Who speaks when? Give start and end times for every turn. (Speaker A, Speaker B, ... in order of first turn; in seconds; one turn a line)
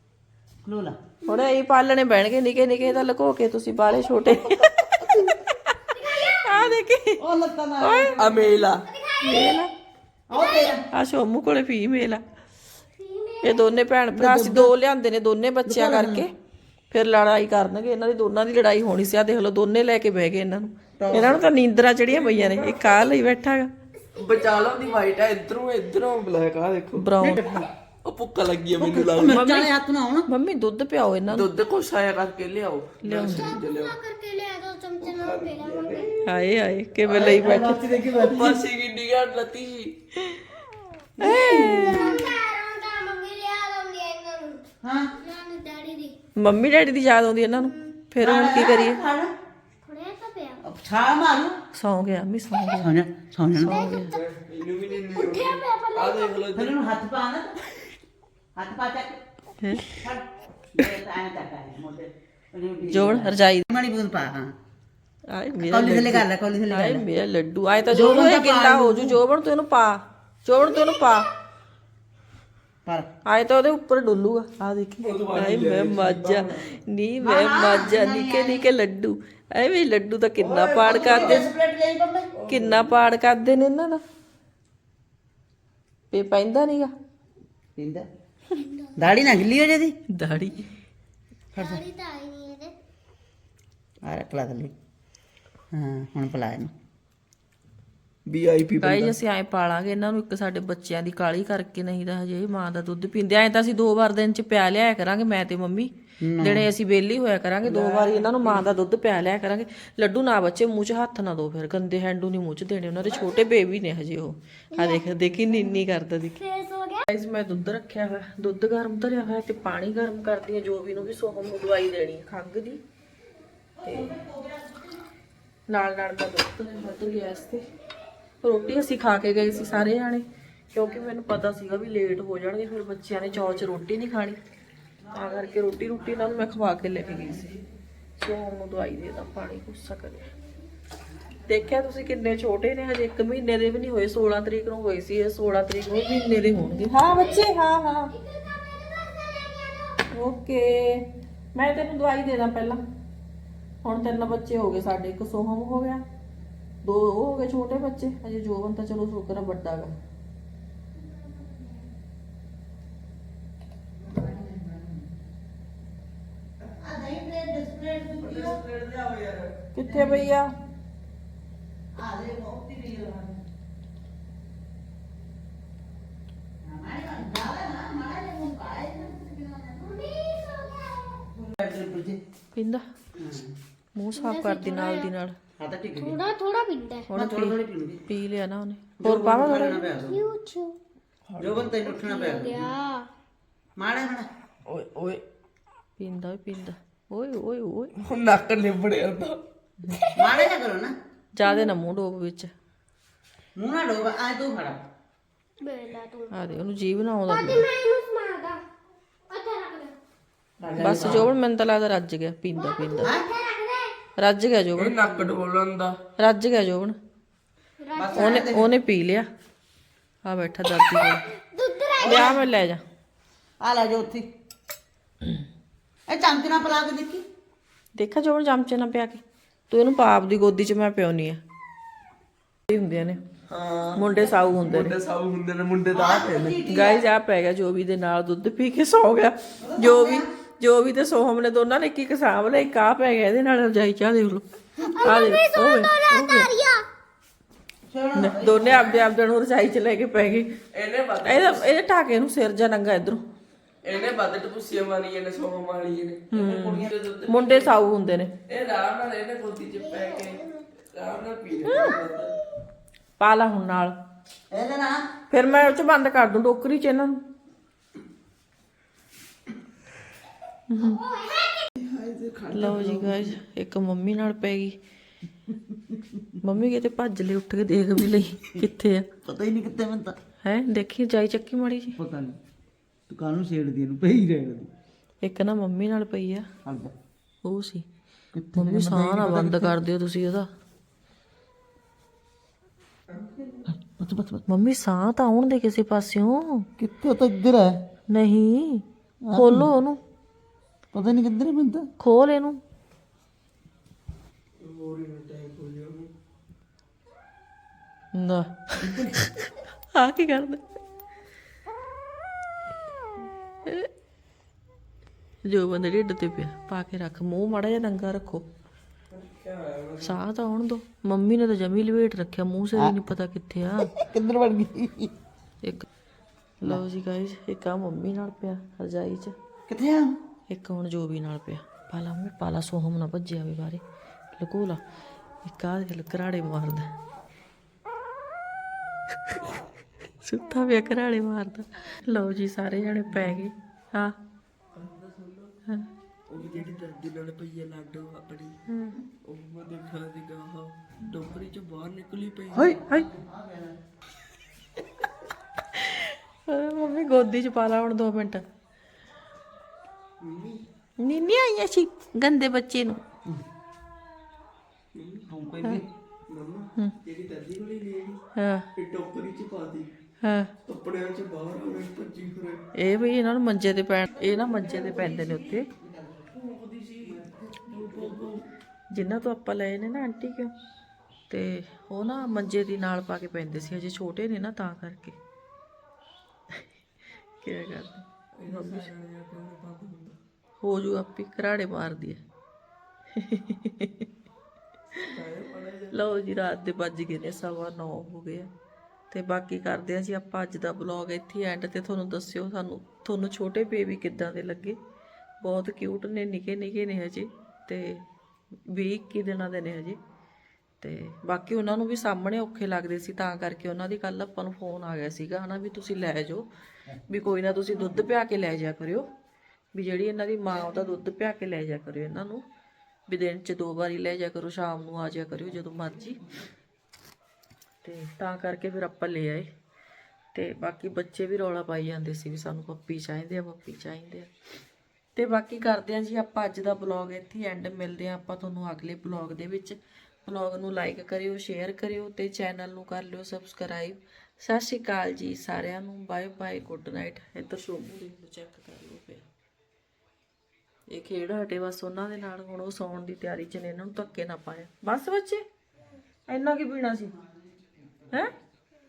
Speaker A: 0.6-1.0
Speaker B: 1.2-7.2
Speaker C: 5.9-6.5
Speaker A: 7.2-8.3
Speaker B: 7.8-8.2
Speaker D: 8.2-8.9
Speaker C: 8.3-9.5
Speaker B: 9.2-9.7
Speaker A: 10.3-10.8
Speaker C: 10.3-10.8
Speaker B: 10.9-12.2
Speaker C: 13.0-13.8
Speaker B: 13.4-16.3
Speaker A: 14.1-14.7
Speaker A: 15.7-16.2
Speaker B: 16.9-23.7
Speaker A: 21.0-21.4
Speaker D: 22.1-23.1
Speaker D: 24.1-27.1
Speaker B: 27.0-27.4
Speaker A: 27.2-27.7
Speaker D: 28.0-29.4
Speaker A: 28.8-30.3
Speaker B: 29.2-29.7
Speaker B: 30.3-31.5
Speaker D: 31.3-34.0
Speaker B: 33.0-33.5
Speaker C: 33.3-36.1
Speaker D: 35.0-36.1
Speaker B: 36.2-37.9
Speaker D: 37.0-37.4
Speaker A: 37.1-38.6
Speaker D: 38.0-39.9
Speaker A: 41.2-42.2
Speaker C: 41.2-44.6
Speaker B: 41.2-42.1
Speaker A: 44.8-45.1
Speaker C: 45.2-46.1
Speaker B: 46.4-49.0
Speaker A: 48.2-49.3
Speaker C: 49.8-50.6
Speaker A: 50.6-51.5
Speaker B: 51.7-53.0
Speaker A: 52.8-53.8
Speaker B: 53.5-54.1
Speaker C: 53.6-54.2
Speaker D: 54.0-56.8
Speaker C: 55.0-56.4
Speaker A: 56.5-57.6
Speaker A: 58.5-59.2
Speaker A: 59.9-64.5
Speaker B: 62.9-63.6
Speaker B: 65.3-71.3
Speaker A: 65.7-67.0
Speaker A: 67.9-69.2
Speaker B: 73.2-81.5
Speaker D: 75.0-76.7
Speaker A: 77.2-78.7
Speaker D: 80.4-81.4
Speaker A: 80.8-82.3
Speaker D: 82.3-82.9
Speaker B: 82.5-84.0
Speaker B: 86.1-86.9
Speaker A: 87.8-88.0
Speaker C: 88.6-88.9
Speaker A: 89.0-89.9
Speaker B: 90.1-90.6
Speaker C: 91.5-92.7
Speaker A: 91.5-91.8
Speaker A: 94.0-94.7
Speaker A: 95.7-96.7
Speaker D: 98.2-99.2
Speaker B: 98.8-116.4
Speaker A: 106.2-106.7
Speaker A: 107.7-108.3
Speaker D: 108.0-108.6
Speaker A: 113.0-113.5
Speaker C: 114.7-115.2
Speaker C: 116.4-117.1
Speaker B: 117.1-122.8
Speaker A: 123.8-124.9
Speaker B: 123.8-124.2
Speaker B: 125.7-127.6
Speaker B: 128.4-134.4
Speaker A: 135.0-137.6
Speaker B: 135.1-137.6
Speaker B: 138.2-140.3
Speaker B: 141.4-148.1
Speaker C: 146.9-147.2
Speaker C: 148.1-150.0
Speaker B: 150.1-152.8
Speaker B: 153.8-156.0
Speaker B: 156.8-159.9
Speaker C: 161.2-161.7
Speaker A: 164.0-165.1
Speaker A: 166.7-168.6
Speaker D: 168.2-169.5
Speaker B: 169.7-170.5
Speaker A: 169.8-170.3
Speaker A: 172.0-173.4
Speaker A: 176.6-180.0
Speaker C: 179.9-181.2
Speaker A: 181.3-182.2
Speaker B: 182.5-182.8
Speaker A: 183.1-183.5
Speaker B: 183.9-185.3
Speaker C: 184.2-185.1
Speaker A: 185.6-186.2
Speaker C: 185.9-187.1
Speaker B: 187.1-189.8
Speaker A: 187.1-188.1
Speaker A: 189.0-190.2
Speaker C: 189.8-190.8
Speaker D: 191.3-191.8
Speaker A: 191.4-192.7
Speaker C: 191.9-193.1
Speaker A: 193.8-194.3
Speaker D: 194.7-195.2
Speaker B: 196.0-197.9
Speaker D: 198.0-199.4
Speaker C: 199.9-200.5
Speaker A: 200.2-200.9
Speaker B: 201.3-202.5
Speaker A: 203.6-204.8
Speaker C: 205.6-206.3
Speaker B: 206.3-207.6
Speaker C: 207.3-208.6
Speaker C: 209.3-209.9
Speaker A: 210.6-211.3
Speaker D: 210.8-211.1
Speaker B: 210.8-213.1
Speaker C: 212.5-214.0
Speaker A: 213.0-213.3
Speaker B: 214.2-215.2
Speaker D: 214.8-216.0
Speaker B: 216.2-216.9
Speaker C: 217.8-218.4
Speaker A: 217.9-218.7
Speaker B: 218.2-219.3
Speaker B: 220.2-221.3
Speaker C: 221.3-222.3
Speaker A: 222.0-222.4
Speaker B: 222.0-222.8
Speaker A: 223.6-224.3
Speaker A: 226.1-227.2
Speaker B: 227.9-231.4
Speaker B: 232.7-233.2
Speaker D: 233.5-236.6
Speaker B: 234.0-234.9
Speaker A: 235.9-237.1
Speaker B: 236.7-244.4
Speaker A: 239.6-240.2
Speaker C: 244.8-246.8
Speaker B: 245.0-246.5
Speaker A: 247.9-249.1
Speaker B: 248.1-250.5
Speaker D: 250.7-251.7
Speaker B: 251.2-253.2
Speaker D: 253.8-257.7
Speaker B: 256.3-258.3
Speaker D: 258.5-262.3
Speaker C: 259.8-260.7
Speaker C: 261.7-262.0
Speaker B: 263.2-263.9
Speaker A: 264.5-265.1
Speaker B: 265.3-267.2
Speaker B: 270.7-271.0
Speaker C: 270.8-271.7
Speaker A: 271.8-273.3
Speaker B: 272.5-274.8
Speaker A: 275.7-276.2
Speaker B: 276.4-279.1
Speaker A: 279.2-280.1
Speaker B: 280.4-281.9
Speaker A: 281.9-282.4
Speaker A: 283.1-284.7
Speaker B: 285.2-286.4
Speaker A: 286.6-286.9
Speaker B: 287.4-287.8
Speaker A: 288.3-289.8
Speaker B: 288.5-290.5
Speaker D: 293.1-293.6
Speaker A: 293.6-294.4
Speaker B: 294.5-296.6
Speaker A: 296.8-297.8
Speaker B: 298.1-300.0
Speaker A: 299.2-299.7
Speaker A: 300.9-301.9
Speaker B: 302.0-302.6
Speaker D: 304.6-306.1
Speaker B: 308.1-310.7
Speaker A: 308.8-309.1
Speaker B: 315.4-318.4
Speaker D: 319.1-320.2
Speaker B: 320.0-323.9
Speaker A: 322.7-323.1
Speaker A: 323.8-325.1
Speaker B: 325.6-325.9
Speaker B: 326.6-329.3
Speaker A: 329.7-330.2
Speaker B: 330.5-334.8
Speaker B: 335.4-336.9
Speaker B: 340.2-344.1
Speaker D: 344.7-345.5
Speaker D: 346.3-348.6
Speaker B: 348.7-349.0
Speaker D: 349.2-352.8
Speaker A: 352.5-353.8
Speaker B: 355.7-358.4
Speaker D: 360.2-360.6
Speaker B: 361.0-363.0
Speaker D: 364.9-365.2
Speaker A: 365.3-365.9
Speaker D: 366.3-368.2
Speaker B: 368.4-368.7
Speaker D: 368.8-369.9
Speaker B: 370.2-370.5
Speaker D: 370.6-372.6
Speaker B: 372.7-375.7
Speaker A: 374.2-376.3
Speaker D: 376.3-378.5
Speaker B: 378.9-380.5
Speaker B: 381.3-385.2
Speaker B: 387.4-388.9
Speaker D: 388.4-390.1
Speaker B: 390.6-392.2
Speaker B: 393.1-394.1
Speaker D: 395.1-396.0
Speaker B: 395.9-398.5
Speaker B: 399.1-404.8
Speaker B: 405.4-408.0
Speaker B: 408.7-410.0
Speaker B: 410.8-416.5
Speaker B: 417.1-419.1
Speaker B: 419.7-422.4
Speaker B: 423.1-426.2
Speaker B: 427.8-429.5
Speaker B: 430.3-434.3
Speaker B: 435.1-449.2
Speaker B: 450.9-455.4
Speaker B: 456.3-457.1